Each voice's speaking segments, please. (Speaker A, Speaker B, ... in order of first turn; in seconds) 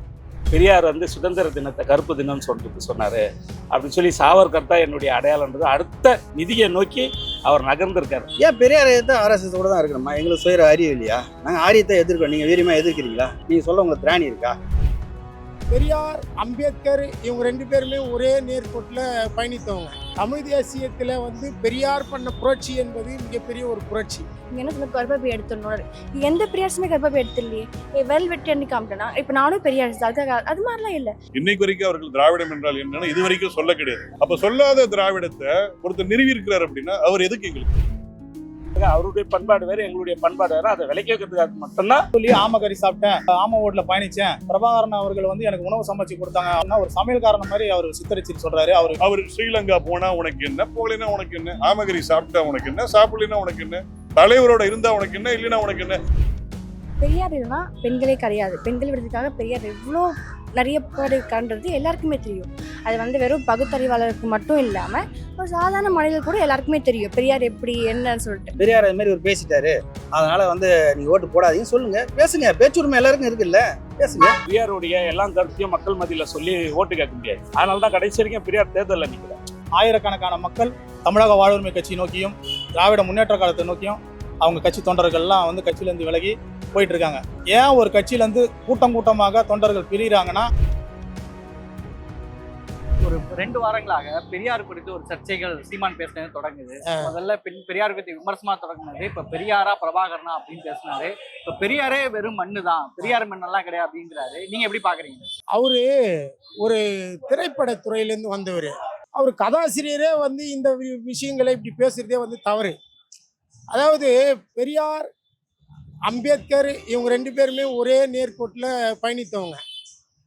Speaker A: 0.5-8.3, 38.8-42.0, 74.5-79.4
Speaker B: 8.4-14.6, 68.6-74.3
Speaker C: 15.7-24.2, 105.5-105.9, 106.6-112.8, 113.7-115.1, 116.1-119.6
Speaker D: 24.5-31.1, 57.0-68.5
Speaker E: 31.3-37.7, 49.0-56.0
Speaker F: 42.1-49.0, 79.8-90.5
Speaker G: 93.0-105.3